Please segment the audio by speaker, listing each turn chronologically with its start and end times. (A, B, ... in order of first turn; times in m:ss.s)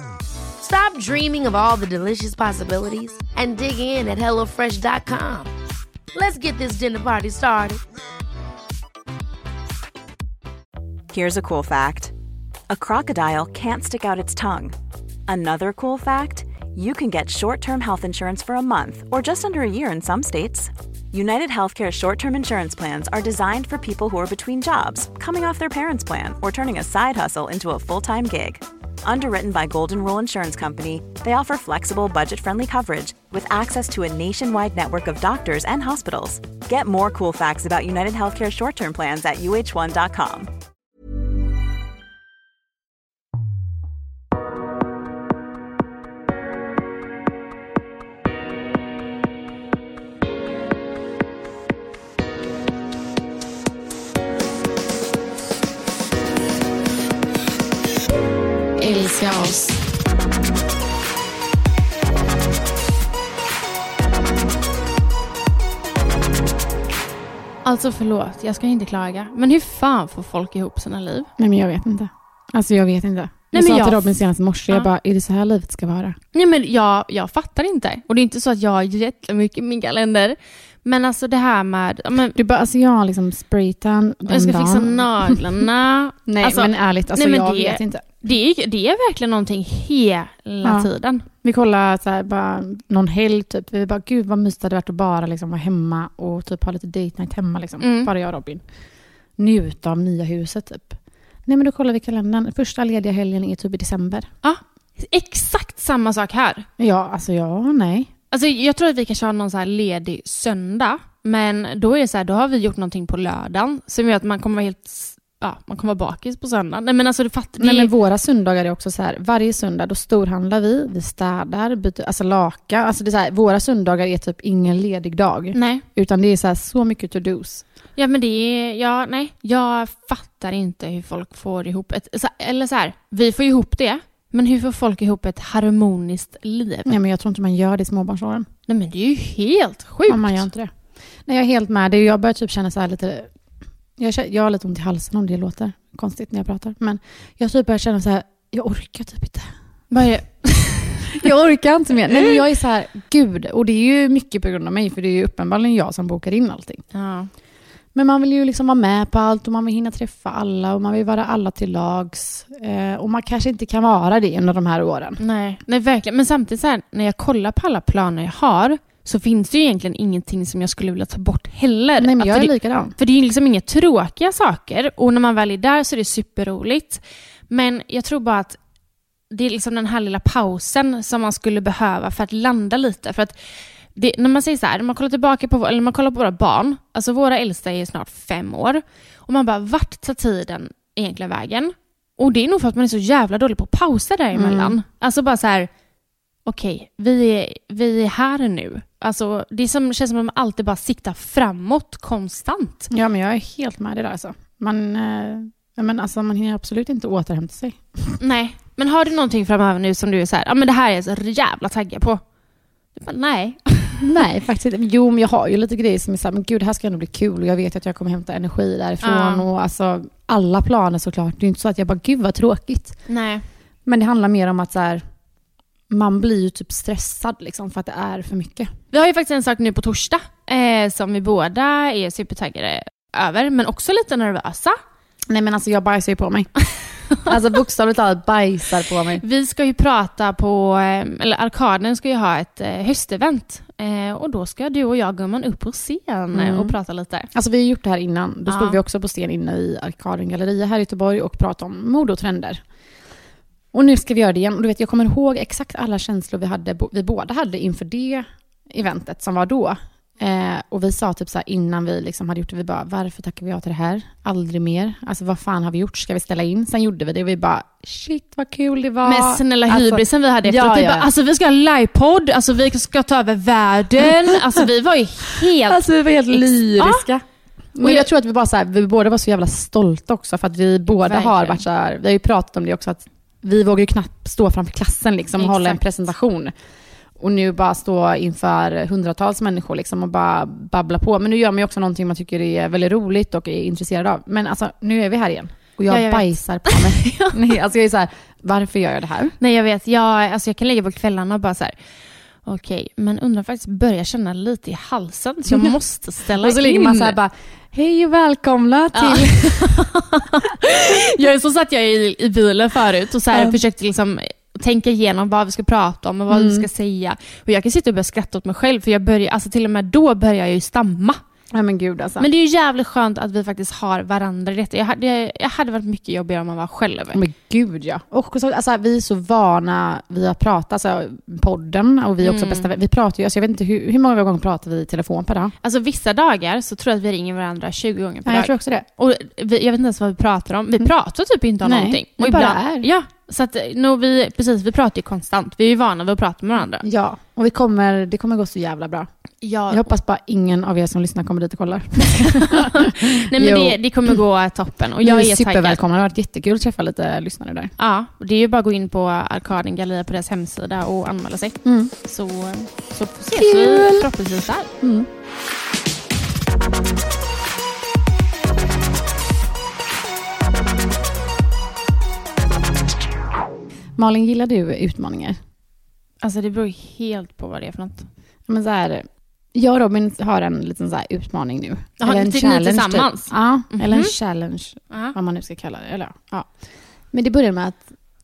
0:00.6-0:05.5 A
0:06.1-0:07.8 A
0:11.1-0:12.1 B
0:12.7-0:14.7 B
0:15.3-0:40.5 B
0:58.8-0:59.8 C
1:07.6-1:11.3 C
1:11.4-1:16.2 D
1:13.5-1:14.9 C
1:16.3-1:22.4 C
1:22.4-1:25.4 D
1:24.3-1:31.2 C
1:26.3-1:28.0 D
1:30.6-1:30.9 D
1:31.4-1:38.6 D
1:37.8-1:38.1 C
1:39.4-1:41.0 D
1:41.5-1:44.3 D
1:44.4-1:46.7 C
1:46.8-1:48.1 D
1:48.3-1:57.9 C
1:57.6-2:07.6 D
2:05.5-2:05.8 C
2:08.0-2:17.0 C
2:16.9-2:18.5 D
2:18.7-2:20.5 C
2:20.1-2:20.7 D
2:21.3-2:23.3 D
2:24.0-2:29.5 D
2:29.9-2:31.2 C
2:31.2-2:36.8 D
2:36.9-2:37.3 C
2:37.9-2:45.2 D
2:45.2-2:58.6 C
2:52.0-2:52.9 D
2:59.3-3:03.4 C
3:04.0-3:15.7 C
3:14.3-3:14.8 D
3:16.5-3:22.9 C
3:22.9-3:28.2 D
3:28.2-3:32.2 C
3:33.0-3:34.1 C
3:34.0-3:43.0 D
3:39.0-3:39.4 C
3:43.1-3:43.4 C
3:43.9-3:45.0 D
3:45.9-3:48.7 D
3:48.9-3:54.8 C
3:55.3-3:56.5 D
3:57.2-3:59.2 D
3:59.2-4:07.3 C
4:06.3-4:06.8 D
4:07.3-4:12.6 D
4:08.5-4:08.8 C
4:13.7-4:31.1 D
4:29.0-4:37.1 C
4:35.7-4:37.2 D
4:37.8-4:46.5 D
4:37.8-4:38.1 C
4:40.9-4:41.6 C
4:45.4-4:45.8 C
4:47.2-4:59.4 D
4:55.9-4:57.5 C
4:59.4-5:01.8 C
5:02.4-5:07.2 C
5:05.5-5:05.8 D
5:06.4-5:09.8 D
5:08.9-5:21.2 C
5:13.3-5:13.6 D
5:16.3-5:16.7 D
5:21.5-5:22.3 D
5:22.2-5:27.2 C
5:27.1-5:35.5 D
5:32.2-5:32.7 C
5:35.6-5:46.8 C
5:38.2-5:38.8 D
5:41.6-5:42.9 D
5:46.8-5:49.1 D
5:49.4-5:49.9 C
5:49.7-5:54.2 D
5:52.3-5:55.8 C
5:55.0-5:57.7 D
5:57.8-6:04.7 C
6:01.6-6:01.9 D
6:03.3-6:04.1 D
6:04.8-6:05.1 D
6:14.0-6:15.4 D
6:16.2-6:18.1 C
6:18.5-6:26.5 D
6:22.0-6:24.2 C
6:27.1-6:27.9 D